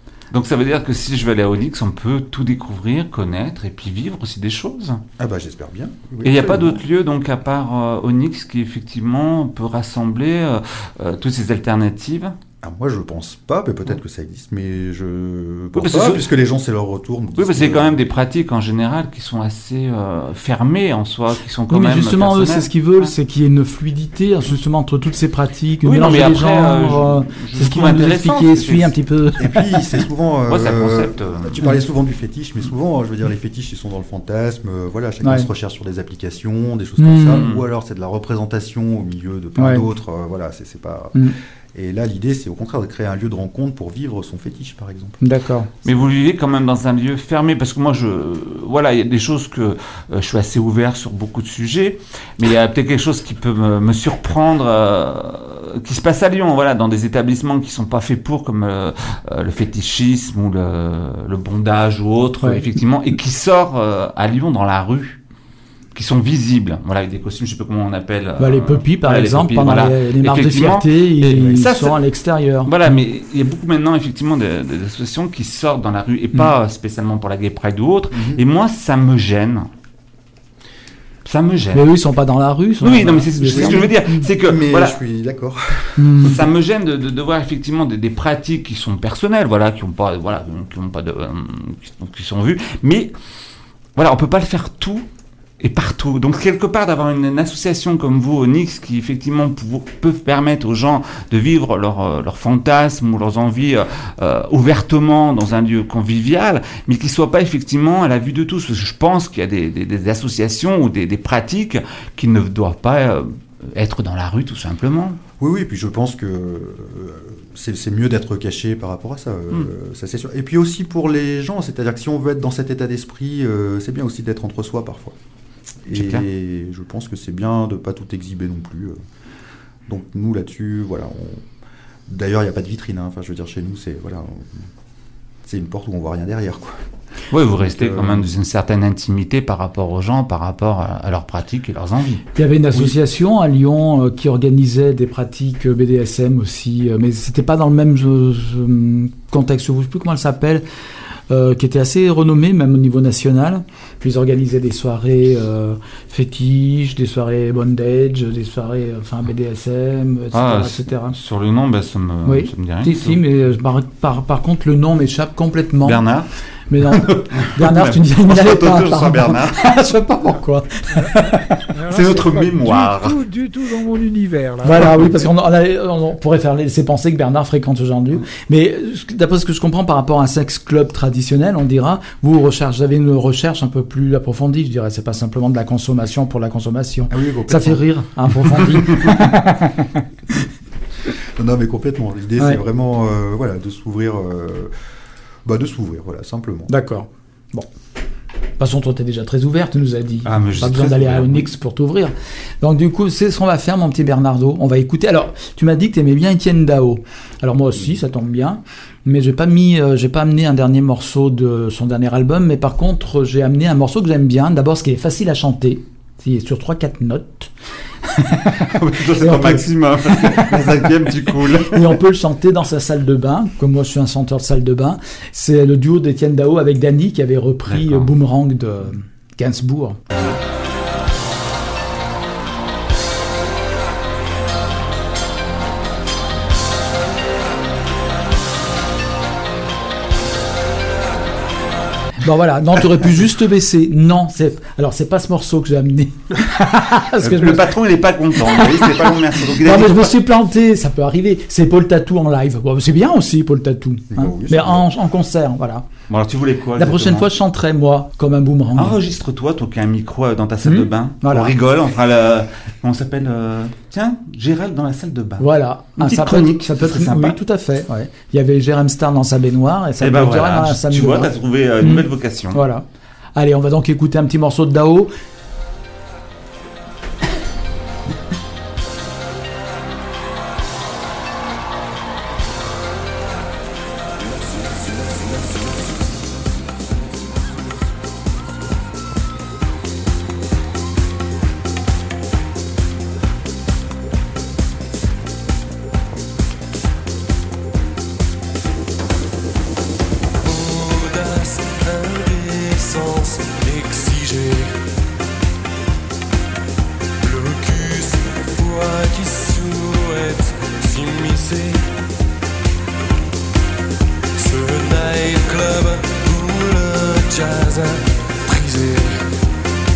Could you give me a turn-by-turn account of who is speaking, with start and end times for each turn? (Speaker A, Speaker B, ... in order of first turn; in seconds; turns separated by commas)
Speaker A: 0.3-5.0, Speaker B: 5.2-6.8, Speaker A: 6.2-12.3, Speaker B: 12.6-18.0, Speaker A: 15.7-16.3, Speaker A: 17.4-23.1, Speaker C: 21.7-29.8, Speaker A: 25.8-28.9, Speaker B: 29.4-45.2, Speaker A: 30.5-31.6, Speaker C: 37.0-37.5, Speaker A: 37.3-37.7, Speaker C: 39.6-39.8, Speaker C: 45.2-45.7, Speaker A: 45.8-65.2, Speaker A: 65.9-72.0, Speaker C: 68.4-72.7, Speaker A: 72.6-79.7, Speaker B: 78.1-78.4, Speaker A: 81.2-81.9, Speaker C: 81.7-84.2, Speaker A: 82.8-85.0, Speaker B: 83.5-86.4, Speaker C: 86.0-86.4, Speaker A: 86.2-93.1, Speaker A: 94.0-95.0, Speaker A: 95.6-115.2, Speaker B: 115.4-125.1, Speaker B: 125.8-128.9, Speaker A: 125.9-126.2, Speaker B: 129.9-131.5, Speaker B: 132.1-134.7, Speaker B: 135.4-136.8, Speaker A: 137.3-142.9, Speaker B: 137.6-138.3, Speaker C: 142.3-150.6, Speaker C: 151.3-161.2, Speaker A: 160.3-163.2, Speaker C: 162.2-166.0, Speaker A: 165.8-166.3, Speaker C: 166.7-171.7, Speaker A: 166.8-169.7, Speaker D: 170.9-175.1, Speaker A: 171.9-173.2, Speaker C: 174.6-189.9, Speaker B: 187.1-187.8, Speaker B: 191.3-194.7, Speaker B: 195.4-196.7, Speaker C: 196.7-197.7, Speaker C: 198.6-217.5, Speaker A: 200.2-201.5, Speaker C: 218.0-230.0, Speaker A: 218.6-222.0, Speaker A: 227.7-228.1, Speaker C: 242.2-247.7, Speaker A: 247.2-250.1, Speaker C: 248.4-255.8, Speaker B: 254.1-254.8, Speaker A: 256.1-257.3, Speaker C: 256.8-259.0, Speaker A: 258.7-267.4, Speaker C: 260.6-261.5, Speaker C: 265.4-272.8, Speaker A: 270.0-272.6, Speaker C: 273.4-275.1, Speaker E: 300.4-304.8, Speaker E: 307.2-311.9, Speaker E: 314.4-319.4